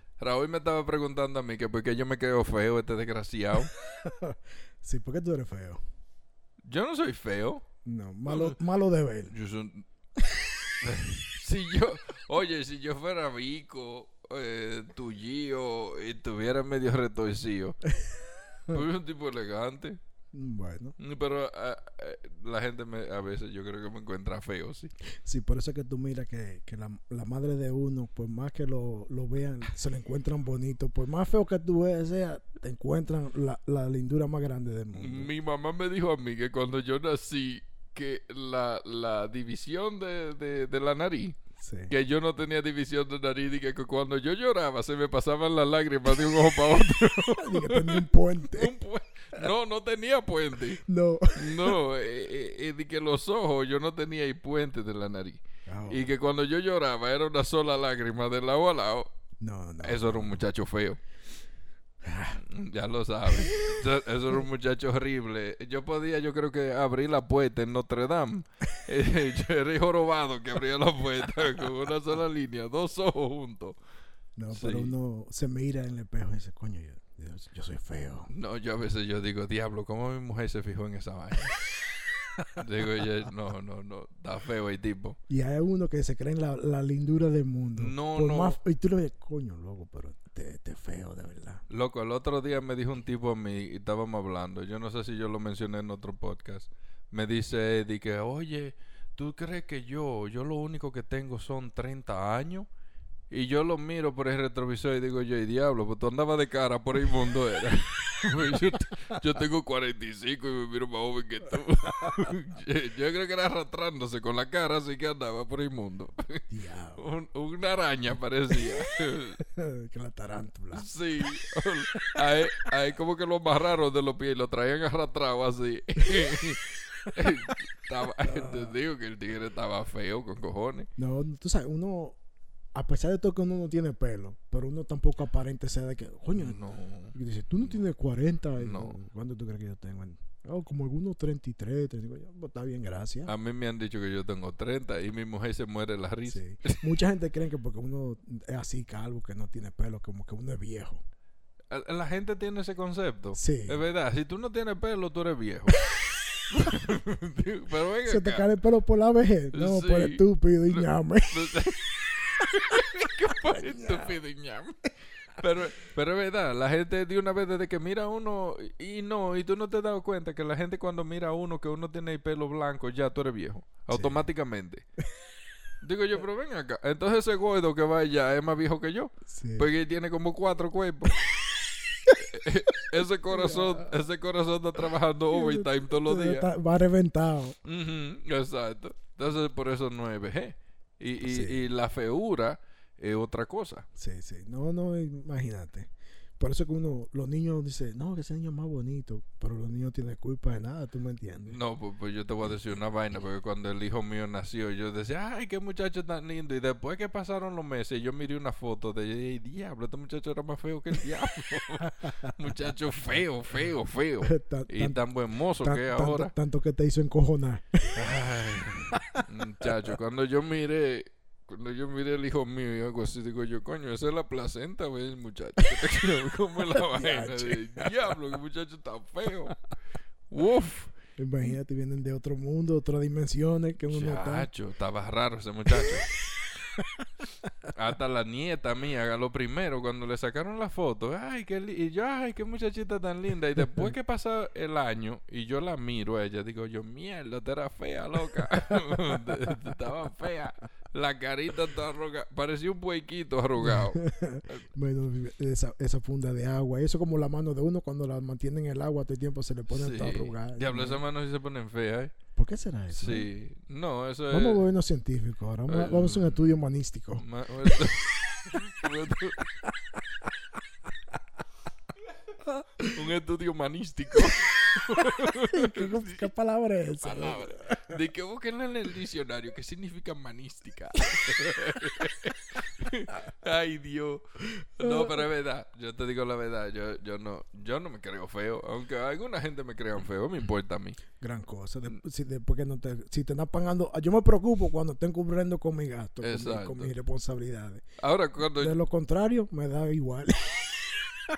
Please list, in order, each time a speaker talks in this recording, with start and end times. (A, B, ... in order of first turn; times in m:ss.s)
0:00.2-0:03.7 A
0:03.7-0:05.8 B
0:06.6-0:07.6 A
0:07.8-0:09.3 B
0:08.3-0:08.5 A
0:09.3-0:09.8 A
0:10.3-0:10.8 B
0:10.8-0:17.8 A
0:17.9-0:18.8 B
0:18.7-0:20.0 A
0:20.3-0:21.0 B
0:21.0-0:24.9 A
0:25.2-0:35.3 B
0:35.0-0:41.4 A
0:41.6-0:41.9 B
0:41.9-0:50.8 A
0:47.4-0:48.7 B
0:50.8-0:51.8 B
0:51.4-0:59.1 A
0:55.7-0:56.0 B
0:59.4-1:00.4 B
0:59.8-1:01.0 A
1:02.0-1:02.4 B
1:02.4-1:13.8 A
1:03.3-1:03.8 B
1:14.4-1:18.3 B
1:14.5-1:14.9 A
1:18.3-1:21.6 A
1:22.6-1:25.2 A
1:25.3-1:31.6 B
1:27.8-1:28.6 A
1:31.7-1:42.7 A
1:43.3-1:56.4 A
1:52.0-1:52.3 B
1:56.5-1:57.0 B
1:57.0-1:59.4 A
1:59.4-2:00.9 B
2:00.7-2:10.9 A
2:08.2-2:08.7 B
2:11.0-2:12.2 B
2:12.8-2:16.6 B
2:16.3-2:17.8 A
2:17.1-2:23.3 B
2:18.6-2:19.0 A
2:23.3-2:26.8 A
2:26.3-2:31.0 B
2:31.7-2:35.8 A
2:33.3-2:33.8 B
2:36.5-2:38.4 A
2:38.0-2:41.5 B
2:39.5-2:54.8 A
2:43.3-2:44.2 B
2:53.9-2:54.2 B
2:55.8-3:01.2 A
2:59.3-2:59.7 B
3:02.2-3:06.4 A
3:03.3-3:03.9 B
3:05.3-3:07.6 B
3:07.6-3:13.8 A
3:11.2-3:11.6 B
3:14.0-3:21.6 B
3:21.5-3:36.3 A
3:32.0-3:32.3 B
3:34.2-3:35.0 B
3:35.6-3:38.1 B
3:38.0-3:49.6 A
3:38.9-3:39.8 B
3:46.8-3:48.1 B
3:50.3-3:50.9 A
3:51.2-3:54.5 B
3:53.9-3:56.1 A
3:56.8-3:57.0 B
3:57.7-4:14.6 A
4:08.7-4:09.6 B
4:13.6-4:21.0 B
4:19.7-4:22.1 A
4:22.4-4:23.3 B
4:22.9-4:24.7 A
4:24.3-4:28.6 B
4:25.7-4:26.4 A
4:27.2-4:29.5 A
4:32.5-4:32.9 B
4:32.9-4:36.3 A
4:34.8-4:37.9 B
4:37.0-4:51.0 A
4:44.6-4:45.2 B
4:51.2-4:57.8 B
4:56.2-4:56.9 A
4:58.0-4:58.8 A
4:58.6-5:01.0 B